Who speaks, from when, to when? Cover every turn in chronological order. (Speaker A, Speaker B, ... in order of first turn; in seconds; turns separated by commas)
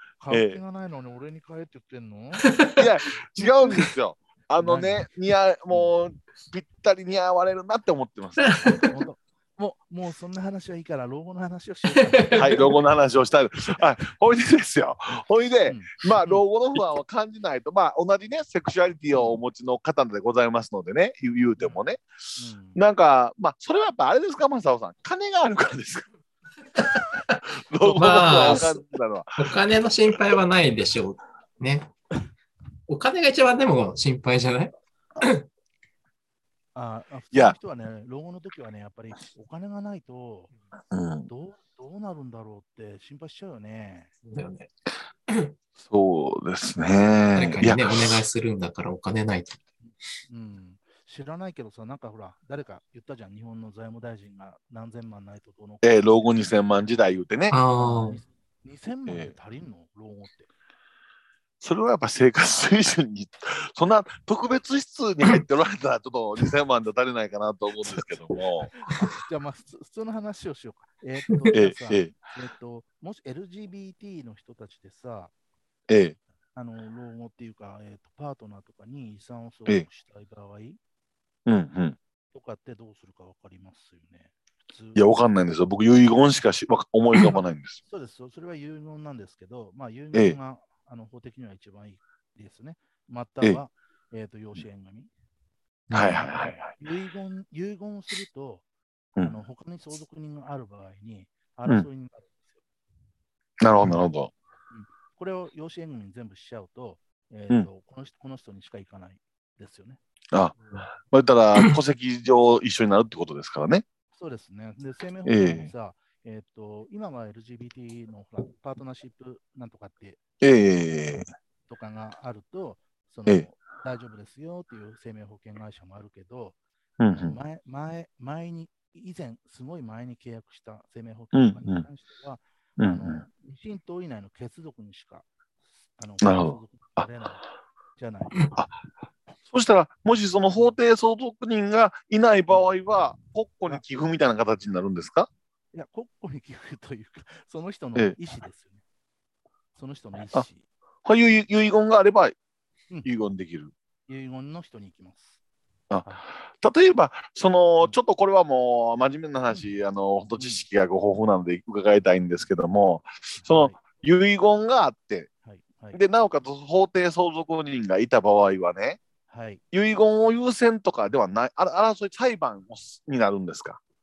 Speaker A: 0.2-2.5, Speaker B: 0.3-0.6, Speaker C: 2.4-2.9, Speaker B: 2.8-8.8, Speaker A: 4.6-5.0, Speaker C: 8.5-8.9, Speaker A: 8.8-12.8, Speaker C: 12.2-12.6, Speaker B: 12.3-22.0, Speaker A: 15.7-16.4, Speaker A: 22.4-22.8, Speaker B: 22.7-26.1, Speaker C: 26.8-28.8, Speaker B: 27.7-29.5, Speaker C: 29.4-31.9, Speaker C: 32.9-35.5, Speaker A: 36.7-40.5, Speaker B: 40.9-41.3, Speaker A: 41.3-44.1, Speaker C: 44.2-44.7, Speaker B: 45.8-48.1, Speaker C: 47.3-49.6, Speaker A: 49.8-56.5, Speaker B: 55.8-57.5, Speaker C: 57.5-58.2, Speaker A: 57.8-60.5, Speaker B: 59.1-59.3, Speaker B: 61.6-68.7, Speaker A: 68.6-75.3, Speaker B: 71.5-72.1, Speaker B: 75.9-76.2, Speaker A: 76.5-80.8, Speaker B: 81.5-82.0, Speaker A: 82.3-85.2, Speaker B: 84.9-87.8, Speaker A: 87.9-95.1, Speaker B: 95.9-96.7, Speaker A: 96.8-98.6, Speaker A: 99.2-102.6, Speaker B: 103.6-104.3, Speaker A: 104.7-110.0, Speaker B: 110.3-113.8, Speaker A: 114.1-120.2, Speaker B: 115.2-115.7, Speaker B: 120.4-121.3, Speaker A: 121.7-126.6, Speaker B: 127.0-127.4, Speaker A: 127.2-135.3, Speaker B: 131.3-131.8, Speaker B: 132.8-133.2, Speaker A: 136.0-137.4, Speaker B: 136.2-137.0, Speaker A: 137.9-138.4, Speaker B: 139.5-145.3, Speaker A: 145.7-148.8, Speaker A: 149.7-150.7, Speaker B: 151.0-152.3, Speaker B: 153.0-153.7, Speaker A: 154.1-155.4, Speaker B: 156.6-165.3, Speaker A: 160.4-160.6, Speaker A: 163.3-163.8, Speaker A: 165.4-166.0, Speaker B: 165.9-169.0, Speaker A: 169.3-169.6, Speaker B: 169.7-173.8